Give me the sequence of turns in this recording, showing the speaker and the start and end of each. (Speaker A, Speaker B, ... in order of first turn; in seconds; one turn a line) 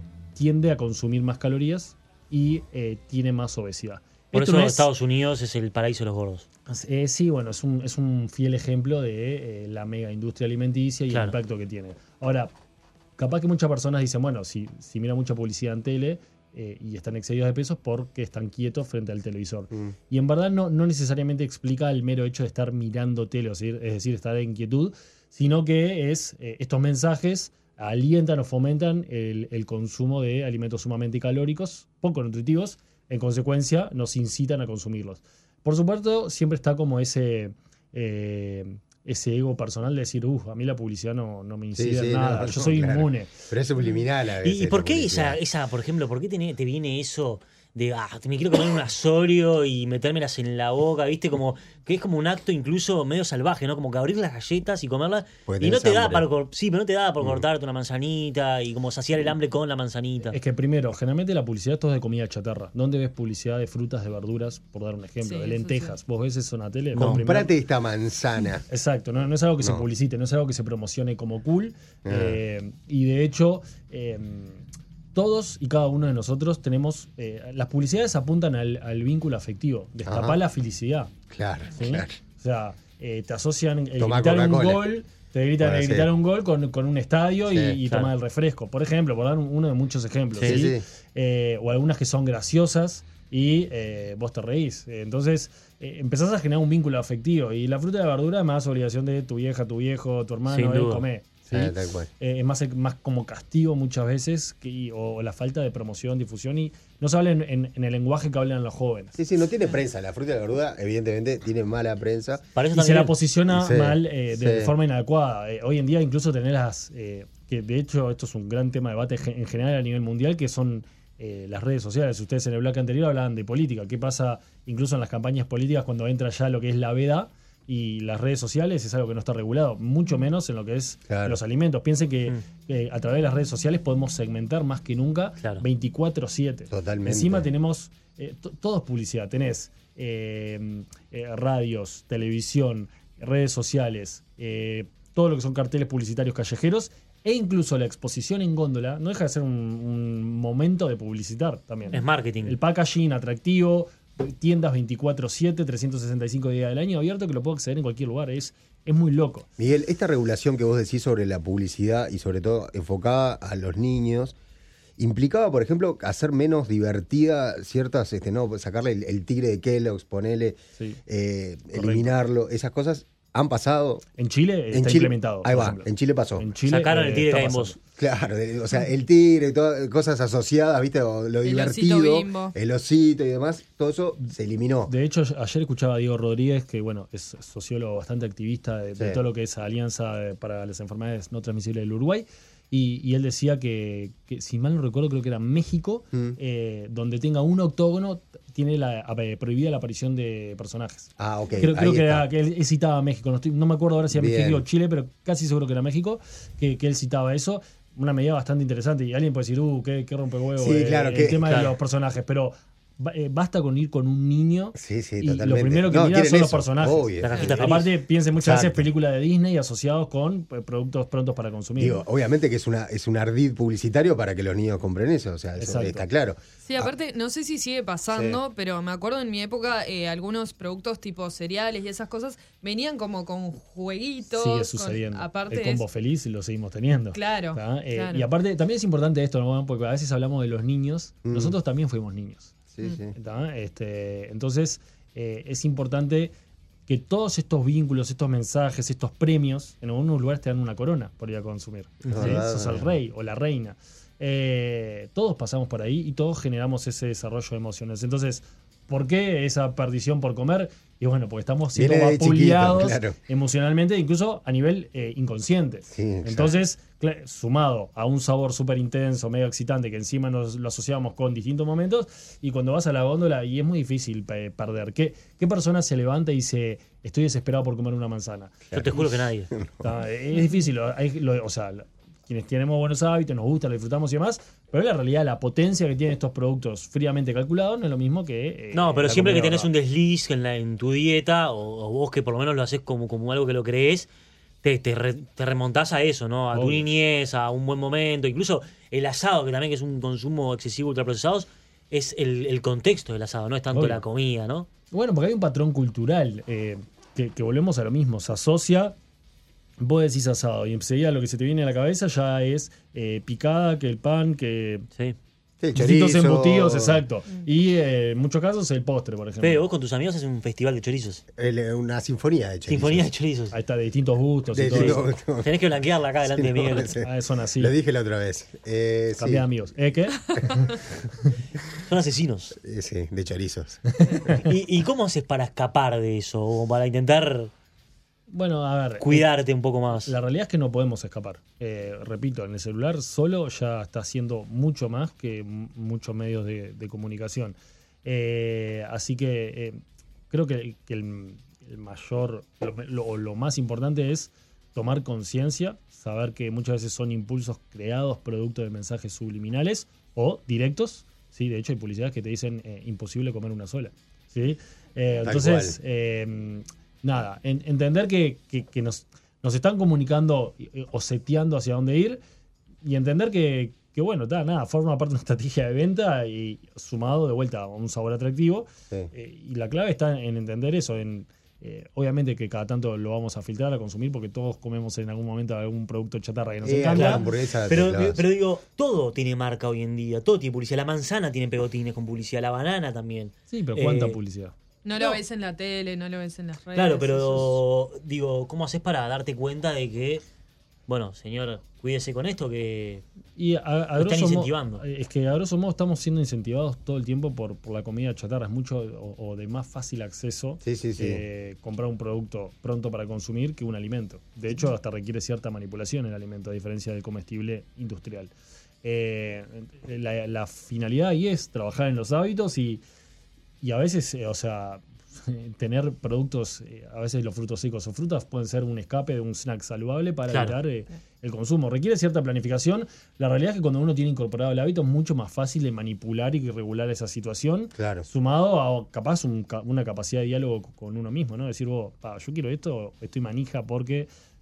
Speaker A: 0.3-4.9
Speaker B: 4.3-6.5
Speaker A: 6.7-12.5
Speaker B: 11.1-11.4
Speaker A: 13.2-43.5
Speaker C: 41.8-45.4
Speaker B: 44.4-60.4
Speaker C: 55.5-56.3
Speaker A: 60.3-67.5
Speaker D: 65.2-66.0
Speaker B: 66.9-67.2
Speaker C: 67.0-68.7
Speaker A: 68.7-81.1
Speaker C: 69.6-69.9
Speaker C: 72.0-72.4
Speaker C: 80.1-80.4
Speaker C: 81.3-82.2
Speaker A: 81.7-109.2
Speaker C: 84.0-84.9
Speaker C: 85.6-86.1
Speaker C: 87.5-87.8
Speaker B: 87.9-88.1
Speaker B: 90.3-90.6
Speaker C: 90.4-90.8
Speaker B: 100.5-101.0
Speaker C: 101.5-102.1
Speaker C: 109.2-112.4
Speaker B: 112.5-113.2
Speaker A: 112.7-159.5
Speaker C: 113.5-114.7
Speaker C: 131.1-131.4
Speaker C: 136.7-137.5
Speaker B: 151.9-152.6
Speaker C: 159.6-164.3
Speaker C: 165.0-174.0
Speaker A: 171.7-172.2
Speaker A: 174.2-177.8
Speaker C: 174.7-176.5
Speaker B: 176.7-177.8
Speaker C: 178.0-184.9
Speaker D: 181.4-182.5
Speaker A: 184.8-222.0
Speaker C: 201.2-202.3
Speaker C: 204.1-204.7
Speaker C: 210.6-211.5
Speaker B: 211.5-211.7
Speaker C: 214.8-218.9
Speaker B: 217.2-217.9
Speaker C: 221.8-226.9
Speaker A: 225.6-226.1
Speaker D: 226.7-235.8
Speaker C: 228.1-228.4
Speaker A: 234.3-242.5
Speaker D: 237.1-238.3
Speaker C: 241.2-241.6
Speaker C: 242.7-243.1
Speaker A: 243.2-246.3
Speaker A: 246.9-279.0
Speaker B: 252.0-252.4
Speaker C: 252.1-252.9
Speaker C: 261.7-263.2
Speaker C: 265.9-266.6
Speaker C: 278.7-280.0
Speaker B: 278.7-279.5
Speaker A: 279.8-289.7
Speaker B: 288.7-294.1
Speaker B: 294.6-304.7
Speaker A: 296.5-296.9
Speaker A: 303.7-304.0
Speaker A: 304.9-308.9
Speaker A: 309.8-314.9
Speaker C: 315.6-317.0
Speaker A: 315.7-319.7
Speaker B: 319.4-321.2
Speaker C: 321.4-323.1
Speaker B: 322.7-323.6
Speaker A: 323.5-325.1
Speaker C: 324.5-325.6
Speaker B: 324.7-327.0
Speaker C: 326.2-329.5
Speaker A: 327.0-327.8
Speaker A: 329.2-330.8
Speaker B: 331.8-332.6
Speaker C: 332.6-333.8
Speaker A: 334.0-334.3
Speaker B: 334.4-337.5
Speaker A: 338.3-339.3
Speaker B: 339.0-340.1
Speaker A: 340.0-372.2
Speaker C: 365.2-365.8
Speaker A: 372.8-387.3
Speaker C: 386.6-388.2
Speaker B: 386.9-394.2
Speaker A: 393.5-394.5
Speaker D: 394.9-397.6
Speaker B: 394.9-395.2
Speaker B: 396.7-400.2
Speaker B: 400.9-403.0
Speaker A: 403.4-418.3
Speaker B: 404.0-404.8
Speaker C: 410.6-411.2
Speaker A: 418.8-422.8
Speaker A: 423.6-444.1
Speaker B: 430.3-430.6
Speaker C: 437.8-438.1